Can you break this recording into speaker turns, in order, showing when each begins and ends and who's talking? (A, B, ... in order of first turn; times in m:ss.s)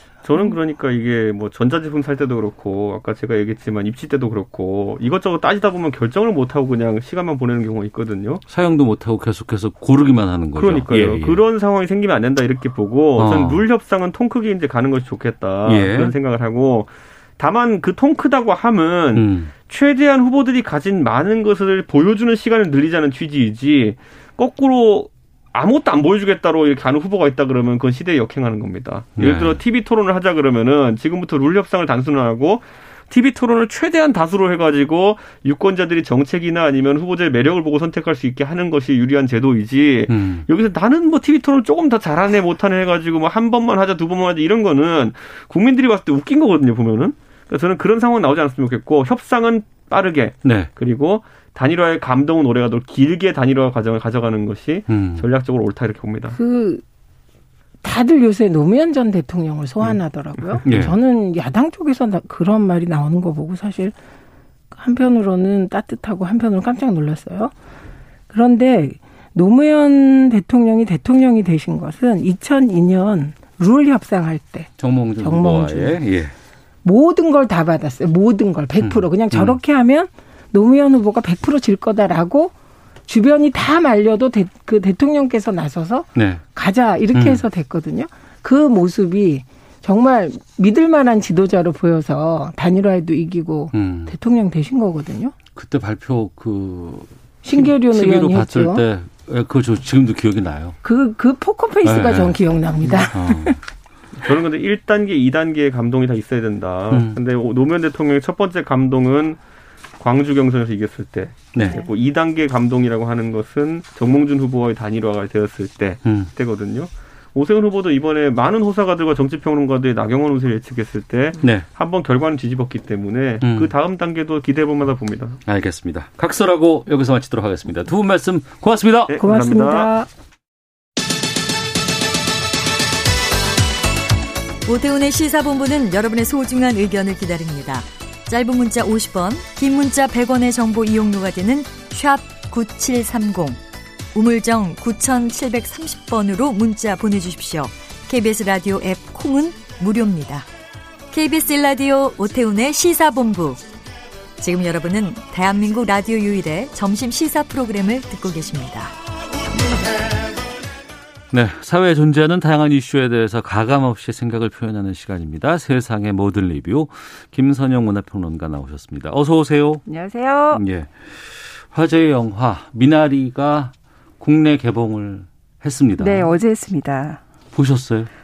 0:00.2-0:08.4 A
0:08.5-0:11.4 B
0:10.6-0:56.4 A
0:13.2-0:13.6 B
0:15.6-0:16.1 B
0:19.1-0:19.5 B
0:29.2-0:29.6 B
0:40.1-0:40.4 B
0:50.4-0:50.7 B
0:54.9-0:55.2 B
0:56.3-0:56.8 C
0:57.8-1:03.9 C
1:00.6-1:01.0 B
1:04.7-1:07.5 C
1:08.3-1:16.0 C
1:14.8-1:16.3 B
1:16.8-1:22.5 C
1:18.8-1:19.6 B
1:23.1-1:35.3 C
1:26.1-1:26.4 B
1:27.1-1:27.4 B
1:33.7-1:34.1 B
1:35.5-1:40.8 B
1:37.4-1:38.8 C
1:40.8-1:43.6 C
1:41.8-1:42.4 B
1:43.1-1:43.6 B
1:44.2-1:49.4 A
1:46.9-1:47.2 B
1:50.0-2:05.4 A
1:51.5-1:51.8 B
1:56.0-1:56.3 B
2:01.4-2:01.6 B
2:03.4-2:03.7 B
2:05.4-2:09.2 B
2:09.1-2:09.9 A
2:09.2-2:10.1 C
2:14.6-2:23.6 D
2:24.1-2:30.5 D
2:31.1-2:33.6 D
2:34.4-2:38.9 D
2:41.3-2:49.8 B
2:49.9-2:50.6 E
2:50.5-2:56.3 B
2:56.0-2:57.2 E
2:57.5-2:58.1 B